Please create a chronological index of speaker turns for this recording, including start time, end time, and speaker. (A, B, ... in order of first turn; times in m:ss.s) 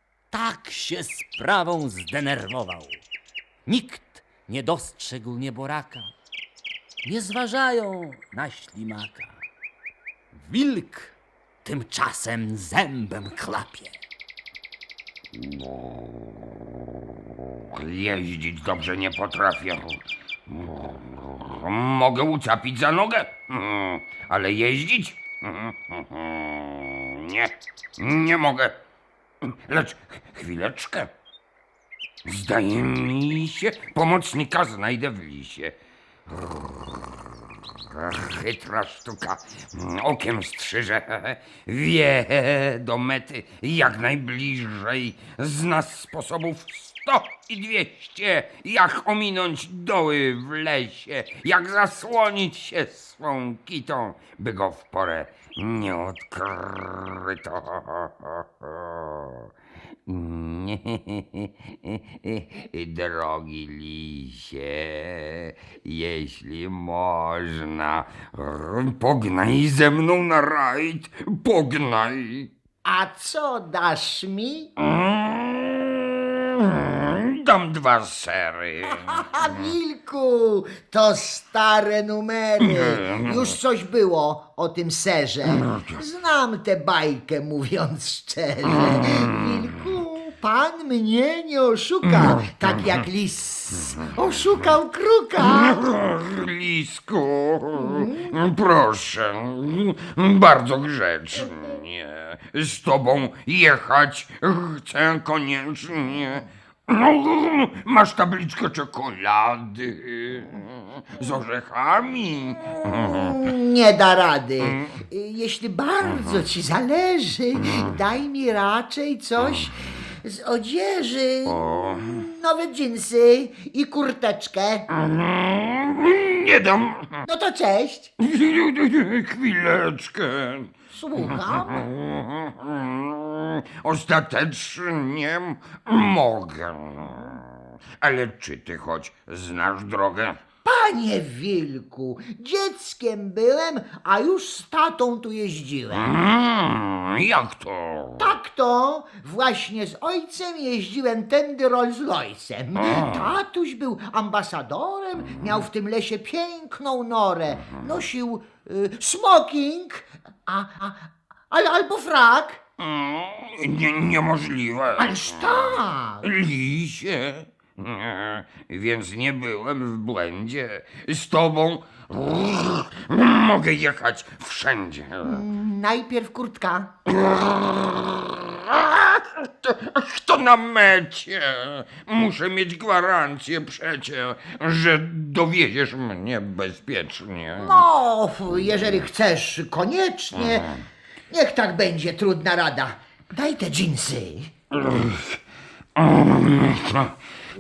0:00.3-0:03.0 A
0:03.6-0:06.1 A
0:07.0-0:09.4 A
0:10.3-0:13.9 A
0:15.4-0:16.2 B
0:17.7-0:28.7 B
0:29.6-0:31.1 B
0:32.2-0:35.8 B
0:36.3-0:37.0 B
0:37.9-0:59.4 B
1:00.1-1:12.5 B
1:12.8-1:14.7 C
1:14.8-1:19.2 B
1:18.9-1:35.8 C
1:22.6-1:23.4 B
1:35.4-1:53.3 B
1:37.8-1:38.3 C
1:53.0-2:04.8 C
2:01.5-2:01.8 B
2:05.0-2:07.1 B
2:07.2-2:08.1 C
2:08.2-2:17.4 B
2:10.9-2:11.9 C
2:18.0-2:20.4 B
2:20.6-2:26.1 C
2:25.9-2:28.3 B
2:28.2-2:42.6 C
2:42.8-2:45.6 B
2:45.0-2:46.2 C
2:46.2-2:55.4 B
2:55.2-2:56.9 C
2:57.1-3:07.8 B
3:07.6-3:14.5 C
3:16.2-3:17.0 B